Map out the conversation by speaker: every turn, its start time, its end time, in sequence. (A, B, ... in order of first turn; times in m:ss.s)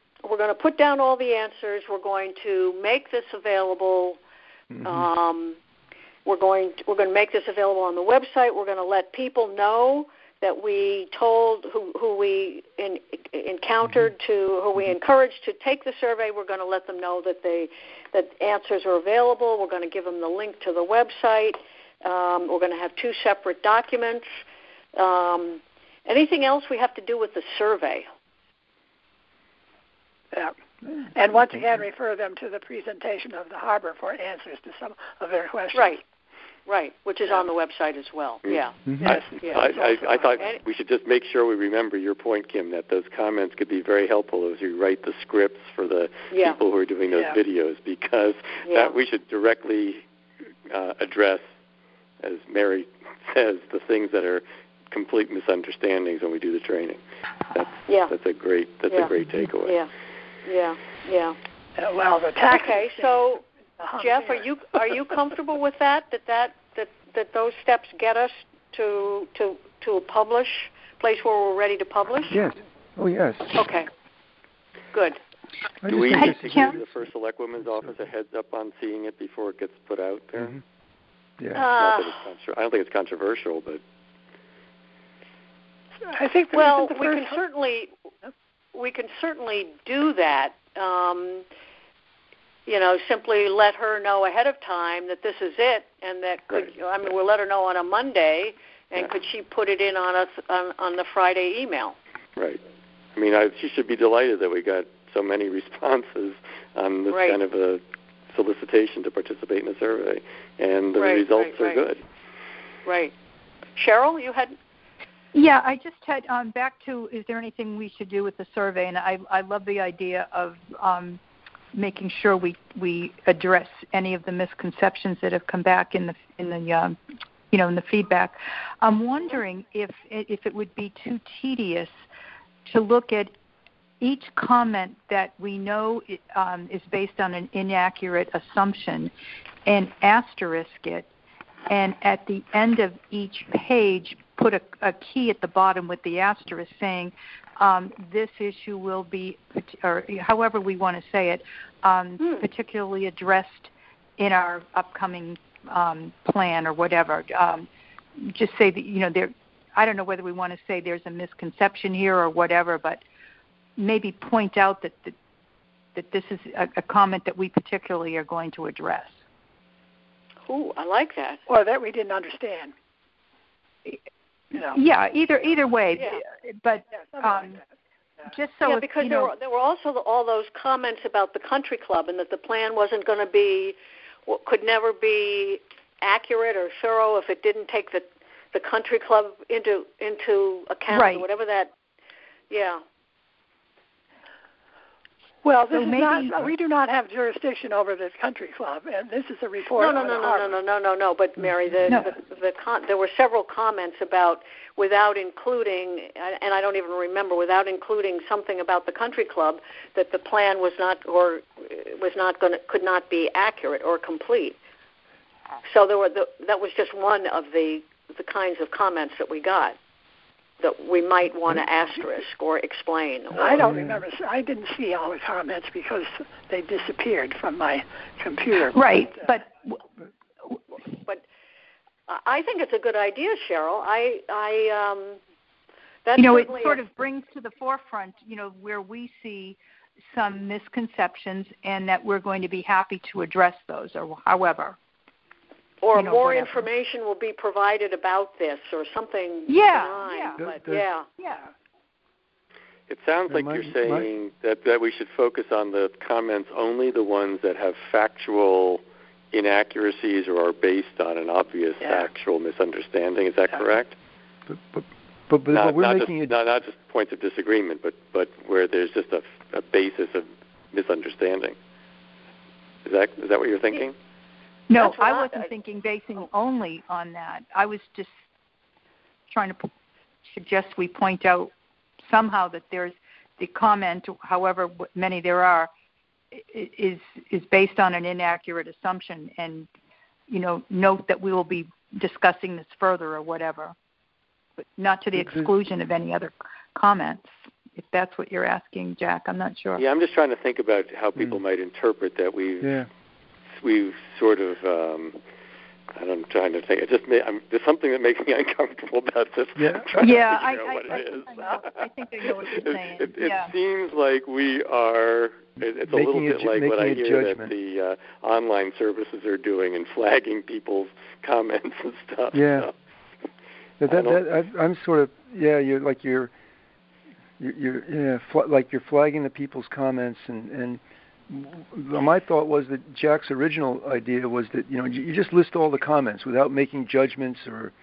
0:00.2-0:04.2 A
0:04.7-0:05.1 B
0:04.8-0:05.6 A
0:06.2-0:24.3 A
0:25.0-0:28.1 A
0:31.1-0:36.0 C
0:35.7-0:36.0 A
0:36.7-0:38.8 A
0:38.4-0:50.0 D
0:39.0-0:40.5 C
0:39.4-0:39.7 A
0:46.3-0:46.6 A
0:47.1-0:47.4 C
0:48.6-0:49.0 A
0:50.7-0:51.4 D
0:52.2-0:57.0 D
0:57.5-0:59.8 D
0:57.9-0:58.1 A
0:59.6-0:59.9 A
1:00.4-1:01.4 A
1:01.8-1:04.4 C
1:02.5-1:12.4 A
1:12.3-1:13.6 B
1:13.6-1:13.9 A
1:14.9-1:15.2 A
1:15.8-1:16.9 B
1:15.8-1:20.6 D
1:16.2-1:16.7 E
1:21.4-1:21.6 B
1:21.5-1:22.2 A
1:21.6-1:23.8 D
1:26.1-1:27.4 C
1:26.5-1:27.9 A
1:28.7-1:31.5 A
1:32.7-1:42.0 A
1:43.2-1:52.0 D
1:47.1-1:47.4 A
1:51.0-1:51.8 A
1:52.9-1:53.1 A
1:53.8-1:54.6 A
1:55.3-2:01.2 E
2:01.7-2:07.0 E
2:07.5-2:12.0 E
2:12.7-2:13.3 E
2:14.0-2:19.1 E
2:19.7-2:21.1 E
2:21.7-2:37.7 E
2:32.2-2:32.5 A
2:38.2-2:43.0 E
2:43.8-2:45.2 E
2:46.0-2:49.2 E
2:50.5-2:51.4 A
2:51.5-2:52.7 C
2:54.5-2:57.6 E
2:58.2-2:59.3 E
2:58.6-3:11.7 A
3:10.9-3:11.3 E
3:12.5-3:12.8 A
3:15.4-3:20.6 C
3:15.7-3:16.5 E
3:19.8-3:34.6 A
3:35.6-3:39.8 A
3:40.6-3:43.8 A
3:43.4-3:49.2 C
3:43.6-3:44.0 B
3:48.7-3:49.8 E
3:52.1-3:55.2 A
3:56.0-3:56.8 A
3:56.2-3:59.6 E
4:00.2-4:04.8 E
4:05.8-4:11.1 A
4:05.9-4:06.7 E
4:09.5-4:10.4 E
4:10.4-4:10.8 B
4:12.9-4:24.0 D
4:13.3-4:14.1 B
4:21.8-4:22.1 C
4:24.5-4:26.4 B
4:25.5-4:31.6 D
4:32.8-4:34.0 D
4:34.7-4:38.1 E
4:34.8-4:35.5 A
4:39.3-4:39.7 E
4:40.3-4:41.5 E
4:42.0-4:45.7 E
4:46.3-4:49.7 E
4:50.3-4:53.8 E
4:54.6-4:59.8 E
4:55.2-4:55.5 B
4:59.8-5:02.8 D
5:02.6-5:02.9 B
5:03.6-5:05.2 D
5:06.0-5:22.7 D
5:09.6-5:10.0 B
5:10.0-5:13.5 E
5:15.9-5:17.5 B
5:22.3-5:22.7 B
5:23.8-5:26.3 B
5:23.9-5:24.2 D
5:27.4-5:37.7 B